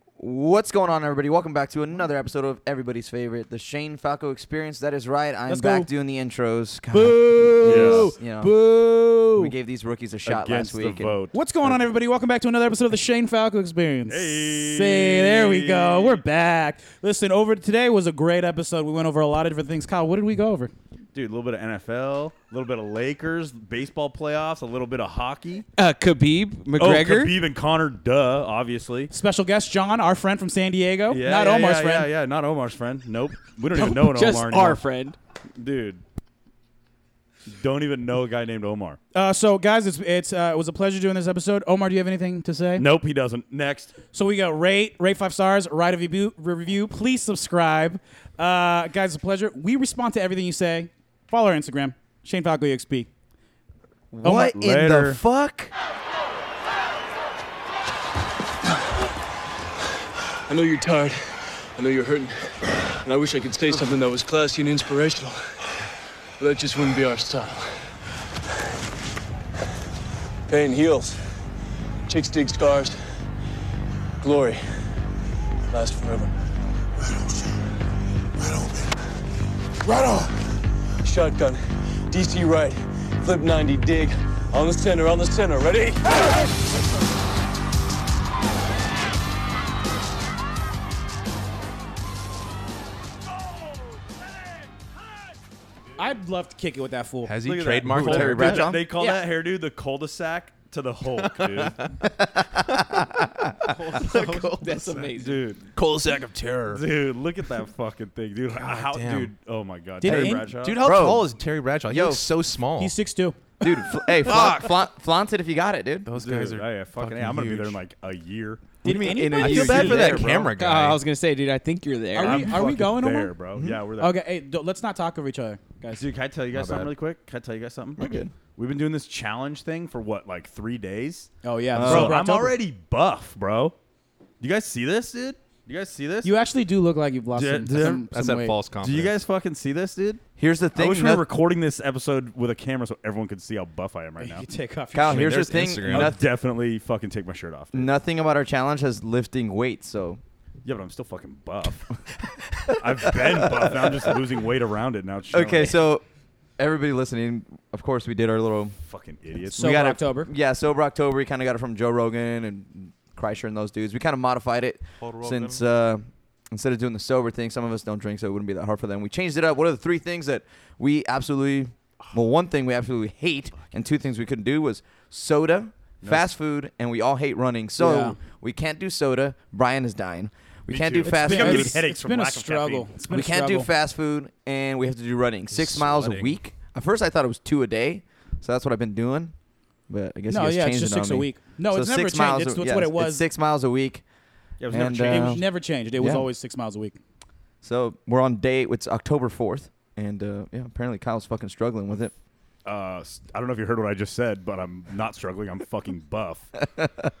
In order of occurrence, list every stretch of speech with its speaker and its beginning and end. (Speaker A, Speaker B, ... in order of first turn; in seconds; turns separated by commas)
Speaker A: 0.2-8.5, Speaker B: 5.5-5.9, Speaker B: 6.9-9.5, Speaker C: 7.6-8.1, Speaker A: 9.2-11.2, Speaker C: 10.2-11.8, Speaker B: 11.3-20.7, Speaker C: 14.1-16.2, Speaker C: 21.1-25.6, Speaker D: 25.8-27.4, Speaker C: 26.8-29.1, Speaker B: 29.1-32.1, Speaker C: 31.1-34.8, Speaker D: 33.7-35.1, Speaker C: 35.6-36.0, Speaker C: 37.5-39.0, Speaker B: 39.1-42.9, Speaker C: 42.8-43.9, Speaker B: 44.1-53.1, Speaker A: 54.1-55.7, Speaker B: 54.2-54.6, Speaker C: 54.5-55.2, Speaker E: 60.5-62.5, Speaker E: 63.0-65.5, Speaker E: 66.4-67.8, Speaker E: 70.5-71.3, Speaker E: 72.1-73.0, Speaker E: 74.2-74.8, Speaker E: 75.7-76.3, Speaker E: 77.0-77.4, Speaker E: 78.4-79.0, Speaker E: 79.8-86.3, Speaker B: 96.0-97.3, Speaker F: 97.2-98.7, Speaker C: 97.4-101.8, Speaker A: 97.9-98.8, Speaker B: 98.8-99.2, Speaker F: 101.2-101.9, Speaker A: 102.0-104.0, Speaker F: 103.7-105.1, Speaker C: 104.0-104.5, Speaker D: 104.6-105.4, Speaker C: 105.1-105.6, Speaker F: 105.7-106.8, Speaker C: 106.7-110.8, Speaker F: 108.5-109.3, Speaker B: 110.0-110.5, Speaker A: 110.0-111.2, Speaker F: 110.3-113.0, Speaker A: 111.9-112.3, Speaker B: 112.8-114.1, Speaker A: 113.6-116.1, Speaker F: 114.3-114.7, Speaker C: 114.3-114.7, Speaker F: 116.0-117.8, Speaker C: 116.1-118.8, Speaker B: 118.8-120.2, Speaker A: 118.8-120.3, Speaker F: 119.4-121.0, Speaker C: 119.5-120.5, Speaker D: 120.5-122.7, Speaker B: 122.1-123.4, Speaker C: 122.1-124.2, Speaker A: 123.5-123.8, Speaker B: 124.0-126.0, Speaker C: 125.9-133.8, Speaker F: 126.5-126.9, Speaker A: 128.0-128.3, Speaker B: 131.4-132.6, Speaker A: 131.7-132.2, Speaker C: 134.4-136.3, Speaker B: 136.2-138.6, Speaker C: 137.3-138.0, Speaker F: 137.8-139.2, Speaker C: 138.8-140.2, Speaker A: 140.4-141.3, Speaker C: 140.7-144.5, Speaker B: 144.2-145.4, Speaker A: 144.9-146.2, Speaker F: 145.0-146.1, Speaker C: 145.8-147.9, Speaker A: 147.7-150.2, Speaker C: 150.6-151.9, Speaker A: 152.4-154.1, Speaker C: 152.8-155.8, Speaker A: 155.3-156.0, Speaker A: 156.6-158.7, Speaker C: 158.8-159.8, Speaker A: 159.6-181.8, Speaker B: 159.6-160.3, Speaker F: 165.0-165.6, Speaker C: 176.0-176.3, Speaker B: 177.8-178.2, Speaker C: 180.7-182.9, Speaker B: 181.0-183.7, Speaker A: 183.0-189.3, Speaker F: 185.5-186.4, Speaker A: 189.9-194.0, Speaker B: 190.3-193.3, Speaker C: 194.6-195.4, Speaker A: 194.7-196.3, Speaker B: 195.0-197.0, Speaker A: 197.6-202.1, Speaker C: 202.6-206.5, Speaker A: 206.6-207.1